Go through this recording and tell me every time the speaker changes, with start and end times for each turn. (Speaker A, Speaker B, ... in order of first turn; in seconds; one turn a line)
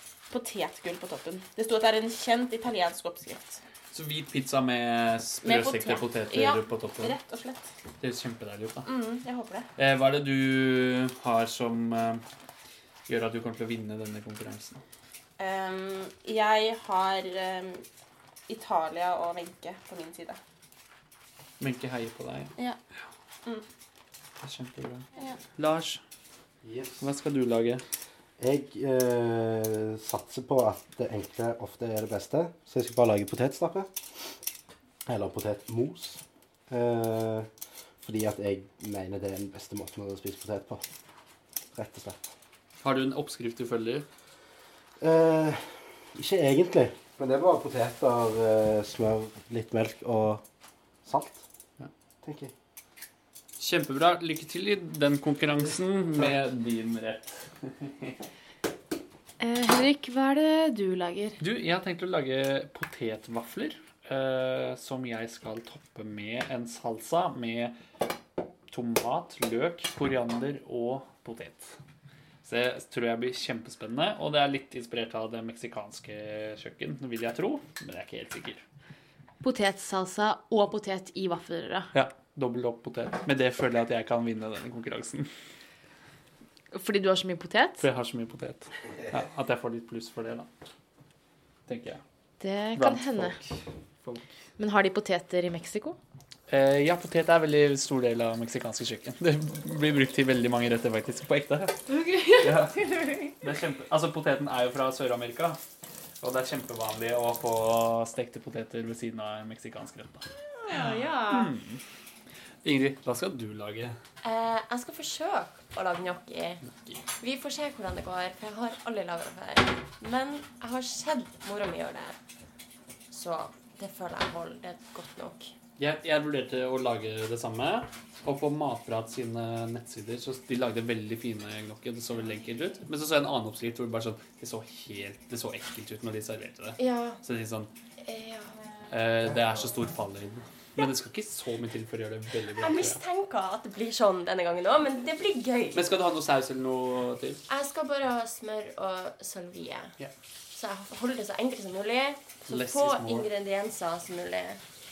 Speaker A: 0.3-3.6
Speaker B: 3.9-7.2
Speaker A: 5.4-7.7
Speaker B: 8.0-8.9
Speaker A: 8.8-9.7
Speaker B: 9.8-12.2
Speaker B: 13.1-14.8
Speaker A: 15.4-17.8
Speaker A: 18.5-20.4
Speaker B: 21.6-22.5
Speaker B: 24.4-26.0
Speaker C: 26.6-27.1
Speaker B: 27.0-27.8
Speaker C: 28.4-33.9
Speaker C: 35.0-37.5
Speaker C: 38.0-40.8
Speaker C: 41.7-42.2
Speaker B: 42.8-44.0
Speaker C: 45.0-50.4
Speaker C: 51.0-51.4
Speaker C: 52.2-52.5
Speaker B: 53.6-58.1
Speaker D: 59.4-61.4
Speaker B: 61.4-67.8
Speaker B: 68.7-71.8
Speaker B: 72.4-78.6
Speaker D: 79.4-81.9
Speaker B: 81.9-85.3
Speaker D: 86.7-87.9
Speaker B: 87.8-90.5
Speaker B: 91.7-92.0
Speaker D: 92.4-93.4
Speaker B: 92.7-94.3
Speaker D: 94.6-96.0
Speaker B: 96.5-105.6
Speaker D: 101.9-102.7
Speaker B: 106.2-111.8
Speaker E: 110.7-111.4
Speaker D: 110.8-111.2
Speaker B: 112.6-114.0
Speaker E: 114.2-116.6
Speaker B: 116.6-117.0
Speaker E: 117.2-122.2
Speaker E: 123.1-125.5
Speaker B: 125.8-137.7
Speaker E: 136.8-137.2
Speaker E: 138.0-138.5
Speaker B: 138.9-143.0
Speaker E: 142.6-145.8
Speaker B: 145.7-147.4
Speaker E: 147.5-149.9
Speaker E: 150.5-154.6
Speaker B: 152.5-153.3